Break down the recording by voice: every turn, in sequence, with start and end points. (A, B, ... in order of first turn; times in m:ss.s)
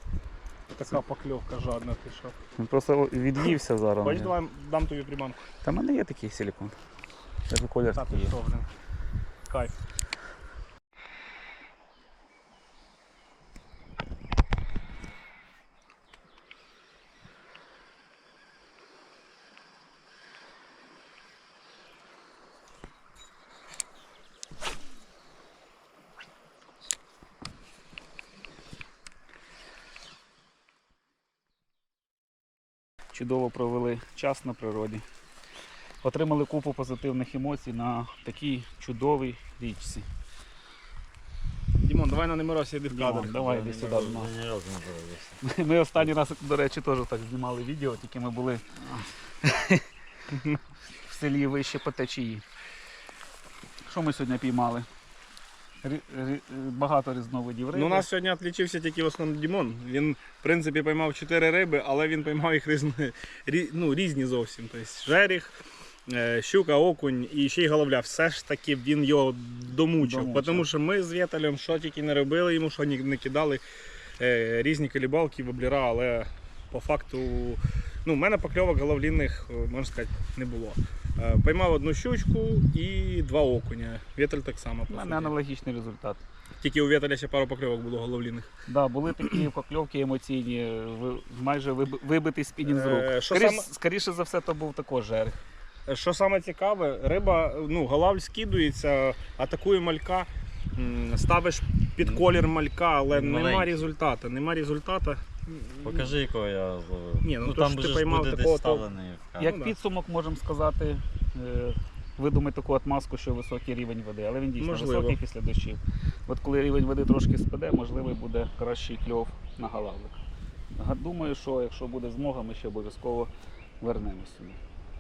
0:00.7-0:02.3 A
0:02.6-0:04.3 B
0:04.0-0:05.4 A
0:05.6-0:06.8 B
0:07.5-0:08.3 B
0:07.9-0:08.7 A
0:09.5-0:09.7 A
0:33.1-0:35.0 B
0:36.0-0:40.0 B
0:41.8-0:44.0 A
0:42.9-0:44.3 B
0:43.7-0:45.4 C
0:45.4-0:48.7 B
0:49.4-0:49.8 B
0:51.0-0:52.4 B
0:53.9-0:54.9 B
0:55.8-0:58.1 B
0:57.7-1:05.6 A
1:06.1-1:13.6 A
1:10.0-1:10.7 B
1:14.2-1:25.3 A
1:24.9-1:26.2 B
1:26.6-1:28.5 A
1:28.7-1:35.4 B
1:32.6-1:33.7 A
1:35.9-1:46.1 A
1:43.1-1:43.9 C
1:45.8-1:49.5 C
1:47.2-1:48.8 A
1:49.4-1:49.7 A
1:49.4-2:00.2 B
1:54.6-1:55.2 A
2:00.7-2:04.6 B